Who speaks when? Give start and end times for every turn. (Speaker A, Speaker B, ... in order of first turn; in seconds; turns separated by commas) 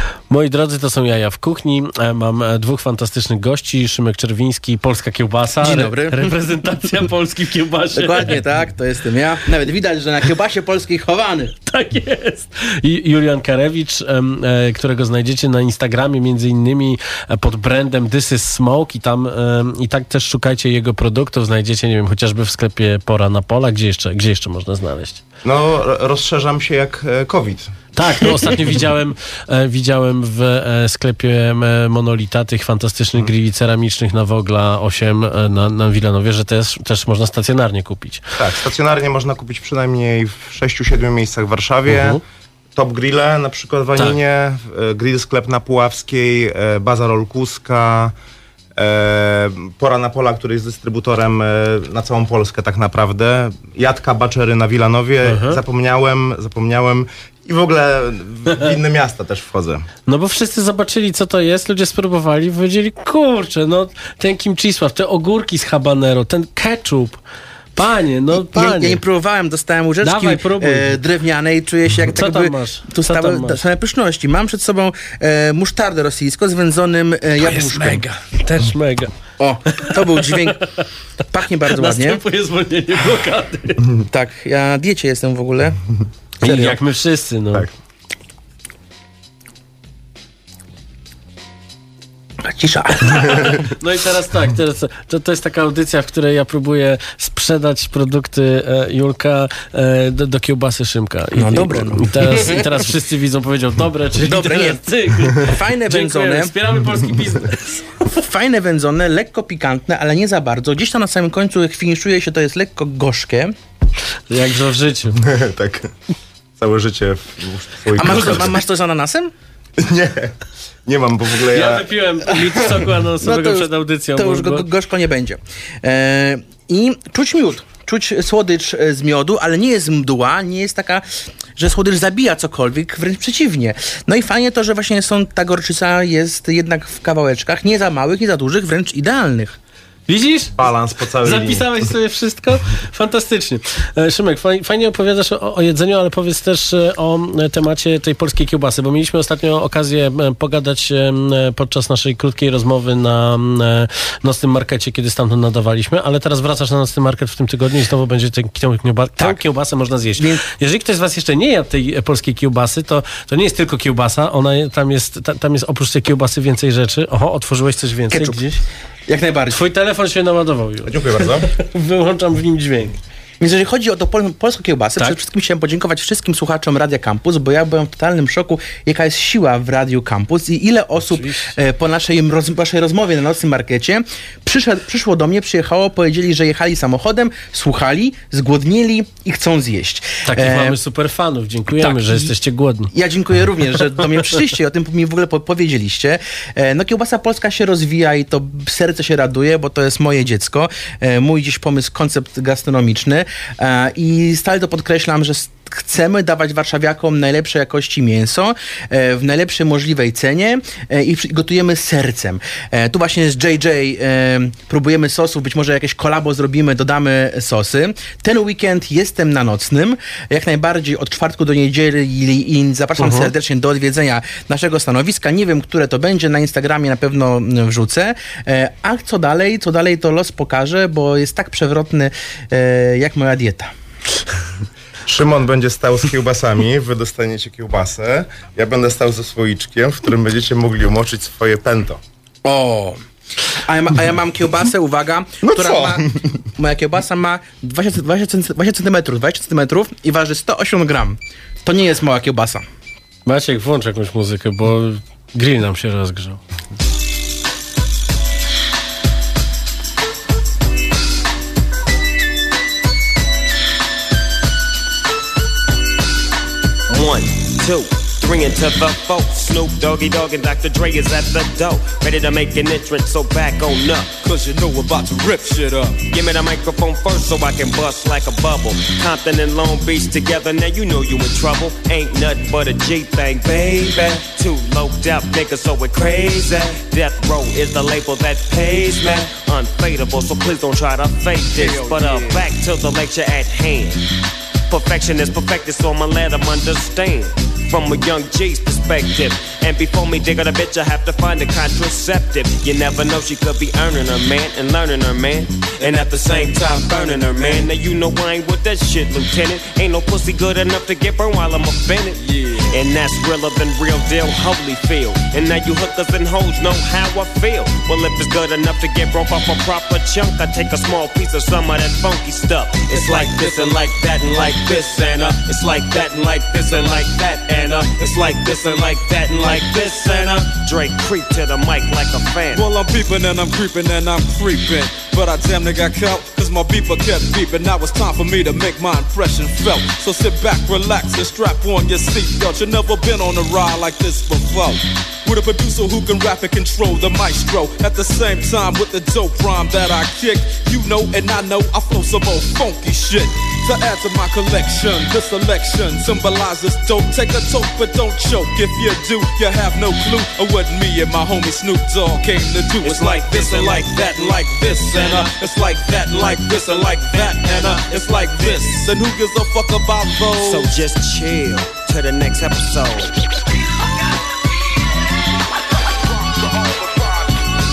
Speaker A: 0.3-8.4, Speaker B: 5.6-6.3, Speaker B: 7.9-11.5, Speaker A: 11.7-25.2, Speaker C: 25.4-27.7, Speaker A: 27.9-38.2, Speaker C: 38.4-42.2, Speaker A: 41.9-42.2, Speaker C: 42.7-48.1, Speaker C: 48.8-59.8, Speaker A: 55.2-55.6, Speaker A: 60.1-67.2, Speaker A: 67.8-69.0, Speaker B: 68.3-78.1, Speaker A: 70.0-71.0, Speaker A: 72.1-73.6, Speaker A: 77.4-79.1, Speaker B: 79.4-80.6, Speaker B: 81.3-82.2, Speaker A: 81.7-83.8, Speaker B: 84.0-85.8, Speaker A: 86.4-87.7, Speaker B: 86.4-86.8, Speaker B: 92.4-93.7, Speaker A: 93.4-108.0, Speaker B: 101.3-102.7, Speaker B: 104.2-104.8, Speaker B: 105.4-106.5, Speaker B: 108.2-113.5, Speaker A: 114.3-115.2, Speaker C: 115.2-115.9, Speaker C: 116.6-118.6, Speaker B: 118.0-119.3, Speaker A: 118.1-118.4, Speaker C: 119.8-120.3, Speaker C: 120.8-121.9, Speaker A: 121.5-124.6, Speaker B: 123.2-131.0, Speaker B: 131.6-139.5, Speaker A: 140.1-140.5, Speaker C: 140.5-141.9, Speaker A: 141.2-168.6, Speaker B: 160.2-160.4, Speaker B: 168.1-168.4, Speaker B: 169.1-169.6, Speaker A: 169.5-173.0, Speaker C: 170.8-171.5, Speaker B: 173.4-190.8, Speaker A: 181.1-181.5, Speaker A: 190.2-192.9, Speaker B: 191.8-192.3, Speaker B: 192.9-233.7, Speaker A: 223.0-223.3, Speaker C: 235.1-242.0, Speaker B: 242.4-243.0, Speaker B: 243.5-252.6, Speaker C: 245.4-246.1, Speaker A: 253.2-256.4, Speaker D: 266.9-274.1, Speaker E: 274.2-276.0, Speaker D: 276.1-294.1, Speaker E: 291.5-292.4, Speaker D: 294.7-332.7, Speaker E: 305.8-307.7, Speaker E: 312.2-312.6, Speaker E: 322.9-323.8, Speaker E: 329.3-330.2, Speaker E: 332.5-370.7, Speaker D: 362.8-365.2, Speaker D: 370.4-373.1